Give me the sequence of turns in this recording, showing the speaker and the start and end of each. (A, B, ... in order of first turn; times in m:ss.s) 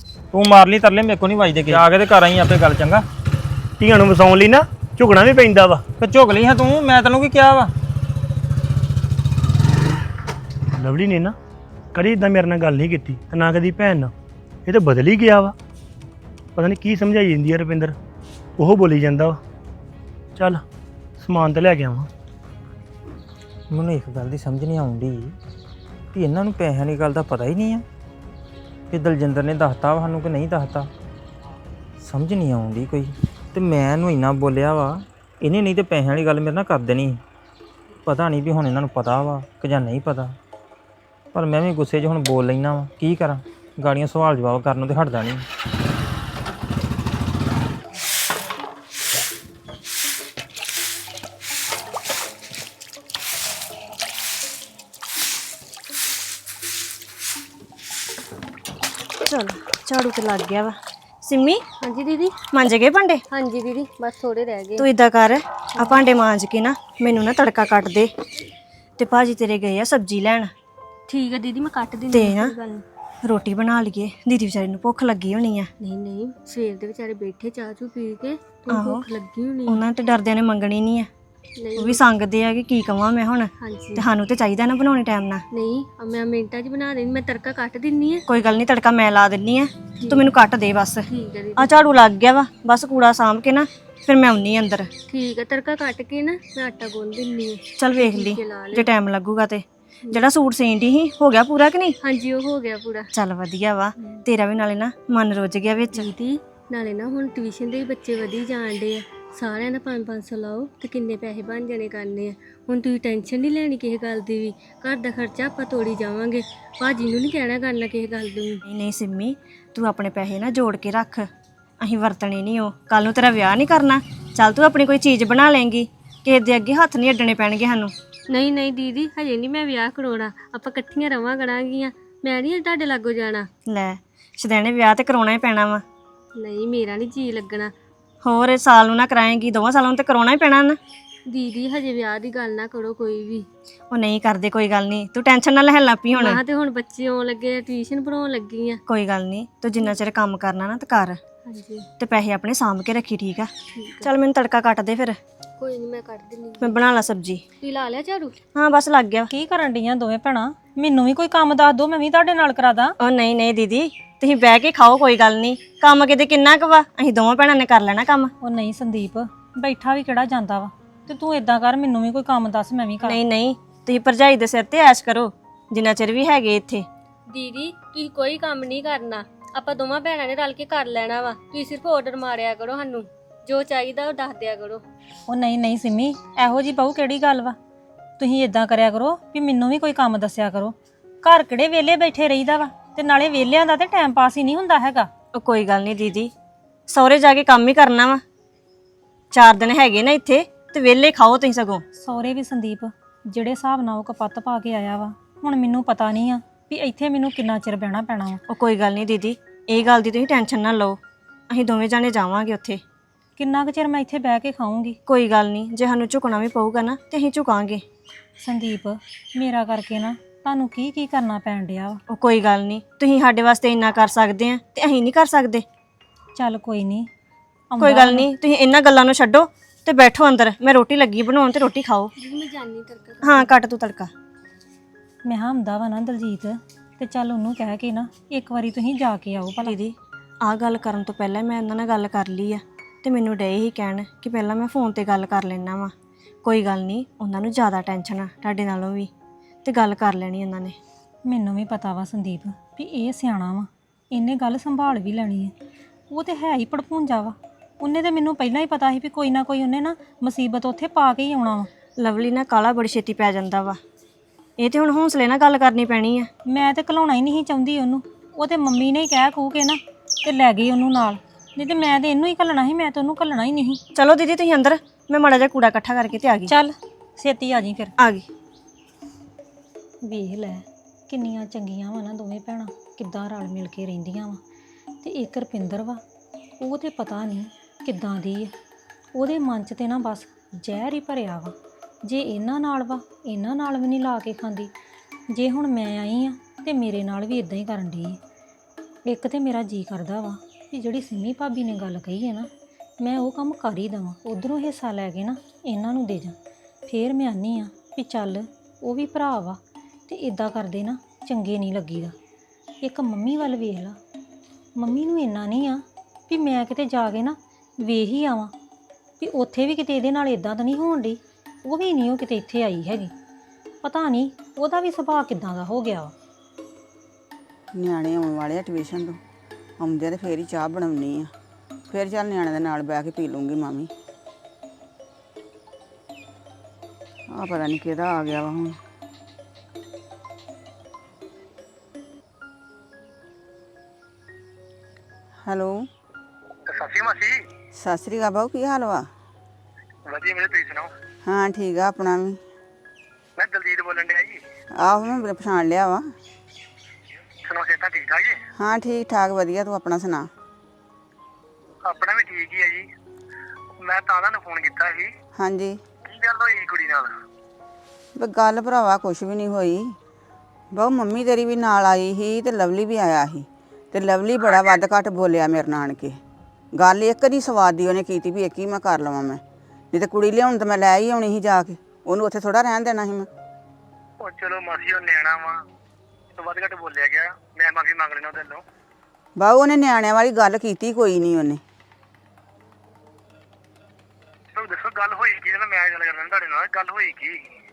0:00.3-0:03.0 A
0:03.8-0:05.8 B
0:06.0-0:07.7 A
0:10.7-0:11.4 B
0:11.9-0:14.1 B
0:14.7-0:15.6 B
0:16.6-0:18.0 B
0:18.6-0:19.4 B
0:20.4-0:20.6 B
0:21.2-0:22.1 B
0:23.7-0:25.4 A
0:26.1-0:27.8 A
0:28.9-0:30.9 A
0:32.0-0:37.2 A
0:38.1-0:40.3 A
0:41.3-0:45.4 A
0:59.2-1:01.6 C
1:01.8-1:02.4 D
1:02.5-1:03.2 C
1:03.3-1:04.9 D
1:04.8-1:08.1 C
1:09.0-1:10.5 C
1:11.1-1:12.8 D
1:12.1-1:12.5 C
1:13.2-1:15.7 C
1:15.8-1:19.9 D
1:18.7-1:19.1 C
1:19.7-1:21.1 C
1:21.6-1:22.0 D
1:21.8-1:25.4 C
1:23.6-1:24.1 D
1:25.5-1:28.2 D
1:28.3-1:34.9 C
1:30.0-1:30.3 D
1:31.1-1:31.8 D
1:35.1-1:39.0 D
1:37.8-1:42.0 C
1:42.0-1:43.1 D
1:43.1-1:46.1 C
1:45.9-1:58.6 D
1:58.7-2:01.3 C
2:01.8-2:07.9 C
2:08.3-2:13.5 D
2:13.7-2:15.8 C
2:16.4-2:17.7 D
2:18.2-2:20.8 C
2:21.3-2:23.5 D
2:23.9-2:26.4 C
2:26.1-2:28.8 D
2:28.9-2:31.2 C
2:31.4-2:31.9 D
2:32.0-2:35.2 C
2:33.8-2:34.1 D
2:35.6-2:36.9 D
2:36.6-2:37.4 C
2:37.6-2:38.4 D
2:38.6-2:39.3 C
2:39.3-2:42.9 E
2:43.0-2:48.3 C
2:48.4-2:53.2 E
2:53.0-2:56.9 C
2:57.3-3:04.8 D
3:05.3-3:07.6 E
3:08.2-3:15.1 E
3:15.4-3:16.3 C
3:16.9-3:18.2 C
3:19.3-3:21.8 C
3:22.0-3:28.4 E
3:28.5-3:31.0 C
3:31.5-3:32.8 C
3:33.4-3:35.0 E
3:35.1-3:37.8 C
3:38.4-3:42.0 E
3:42.1-3:45.6 C
3:46.4-3:47.1 E
3:47.7-3:48.3 E
3:47.8-3:52.1 C
3:52.2-3:53.5 D
3:53.2-3:54.1 C
3:55.2-3:59.8 E
3:59.6-4:09.1 C
4:09.6-4:10.8 C
4:11.3-4:15.5 E
4:16.1-4:21.7 E
4:22.0-4:23.8 C
4:24.6-4:26.3 C
4:26.5-4:33.8 E
4:34.0-4:36.5 C
4:36.5-4:37.9 E
4:38.0-4:38.2 C
4:40.0-4:44.4 E
4:45.0-4:46.0 E
4:46.6-4:48.5 E
4:49.2-4:54.7 E
4:55.3-4:58.2 E
4:59.1-5:02.5 E
5:03.0-5:06.4 E
5:06.9-5:12.1 E
5:12.8-5:14.0 E
5:14.8-5:18.5 E
5:19.2-5:23.1 E
5:23.8-5:26.1 E
5:27.8-5:29.2 F
5:29.8-5:31.3 F
5:31.9-5:33.9 F
5:37.3-5:38.8 F
5:45.5-5:45.9 F
5:46.7-5:47.4 G
5:47.8-5:49.1 F
5:50.1-5:50.9 G
5:51.3-5:52.4 F
5:53.4-5:54.4 G
5:54.8-5:56.1 F
5:57.4-5:58.4 G
5:58.6-6:00.3 F
6:01.9-6:02.9 G
6:03.8-6:05.1 G
6:05.4-6:05.8 F
6:06.1-6:07.1 G
6:08.2-6:10.0 F
6:10.7-6:16.2 F
6:14.4-6:14.8 G
6:16.8-6:19.4 F
6:19.9-6:23.3 F
6:24.2-6:25.6 G
6:26.4-6:28.6 G
6:29.4-6:31.6 F
6:34.6-6:37.4 G